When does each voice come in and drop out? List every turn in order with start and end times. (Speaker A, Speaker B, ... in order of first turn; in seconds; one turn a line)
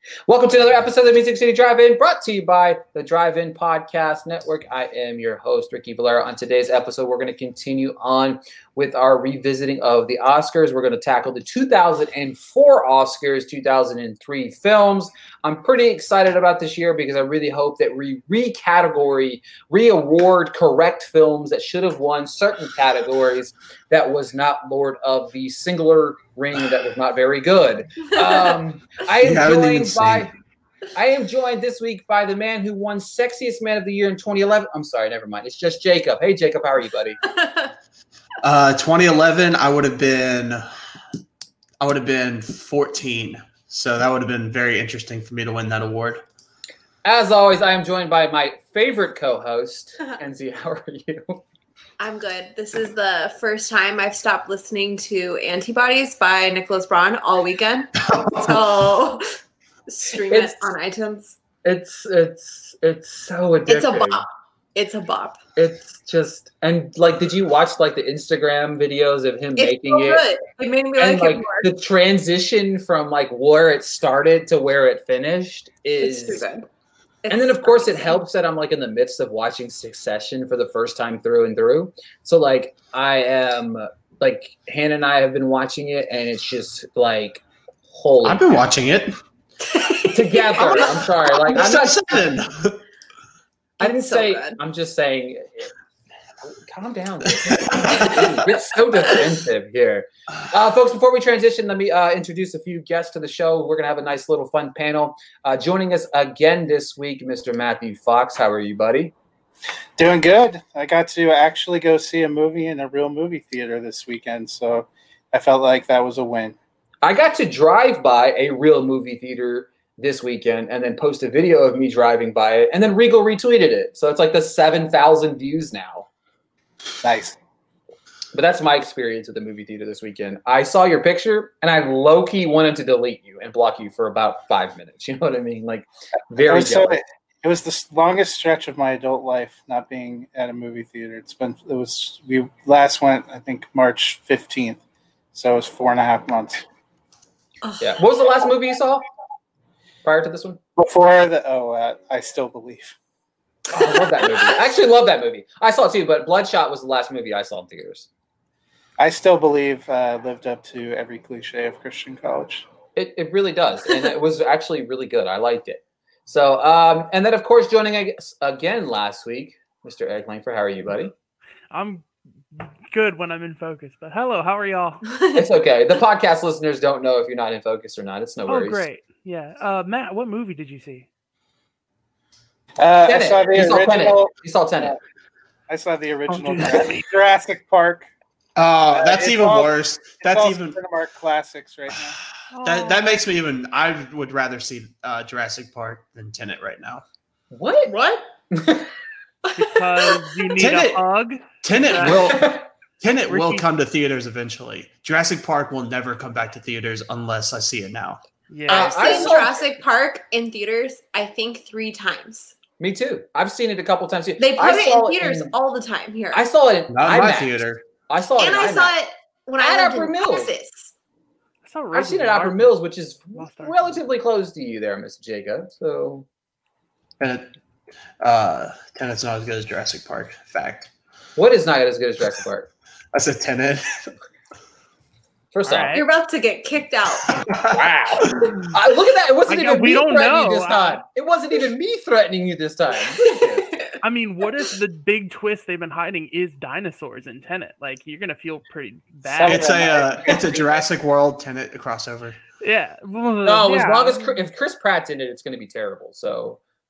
Speaker A: 0.3-30.3
Speaker B: 29.2-30.3
Speaker A: 30.9-37.2
Speaker C: 37.4-37.7
Speaker B: 38.4-40.6
Speaker B: 41.8-46.2
Speaker A: 47.0-51.4
Speaker C: 52.0-59.3
Speaker B: 58.0-58.6
Speaker C: 59.9-61.4
Speaker A: 60.3-60.7
Speaker A: 61.6-64.2
Speaker C: 63.7-65.4
Speaker A: 65.6-70.3
Speaker C: 69.6-71.7
Speaker A: 71.0-76.5
Speaker C: 76.0-76.7
Speaker C: 77.2-78.1
Speaker A: 77.3-88.6
Speaker B: 88.2-89.1
Speaker C: 89.7-90.7
Speaker A: 90.1-92.2
Speaker B: 90.7-92.8
Speaker C: 93.8-94.6
Speaker A: 93.8-95.7
Speaker A: 96.5-109.1
Speaker B: 97.5-98.2
Speaker D: 110.0-116.6
Speaker A: 117.0-126.1
Speaker D: 127.0-127.4
Speaker A: 128.3-137.0
Speaker D: 136.4-144.8
Speaker D: 145.3-146.7
Speaker A: 147.8-149.1
Speaker A: 150.0-150.6
Speaker D: 150.8-153.0
Speaker A: 153.7-158.1
Speaker D: 159.0-162.7
Speaker A: 163.0-171.1
Speaker E: 171.7-172.1
Speaker E: 172.6-175.1
Speaker C: 175.1-175.5
Speaker A: 175.3-178.8
Speaker E: 178.5-181.1
Speaker D: 182.8-185.0
Speaker A: 183.1-185.0
Speaker D: 185.7-188.1
Speaker E: 186.3-187.1
Speaker B: 188.6-190.8
Speaker D: 188.9-192.2
Speaker E: 192.5-193.2
Speaker B: 192.6-197.0
Speaker A: 197.5-198.9
Speaker E: 199.6-202.2
Speaker B: 200.6-201.0
Speaker B: 201.6-208.2
Speaker A: 202.2-202.6
Speaker E: 203.3-203.7
Speaker E: 208.5-209.4
Speaker A: 208.7-209.6
Speaker C: 208.7-212.5
Speaker A: 212.8-215.5
Speaker C: 214.4-216.5
Speaker A: 216.3-218.9
Speaker B: 216.9-217.8
Speaker C: 218.4-220.9
Speaker A: 219.6-220.5
Speaker E: 221.7-222.8
Speaker A: 221.9-226.3
Speaker E: 223.3-224.0
Speaker B: 227.2-227.5
Speaker B: 228.2-230.9
Speaker A: 231.4-232.7
Speaker B: 233.1-234.0
Speaker A: 235.5-236.0
Speaker E: 235.7-236.1
Speaker C: 235.9-237.3
Speaker B: 237.3-238.7
Speaker A: 237.7-243.8
Speaker E: 239.5-241.0
Speaker C: 243.2-244.0
Speaker E: 244.0-249.8
Speaker B: 249.4-252.4
Speaker A: 249.4-250.5
Speaker D: 249.4-250.0
Speaker E: 252.6-254.4
Speaker A: 253.4-256.6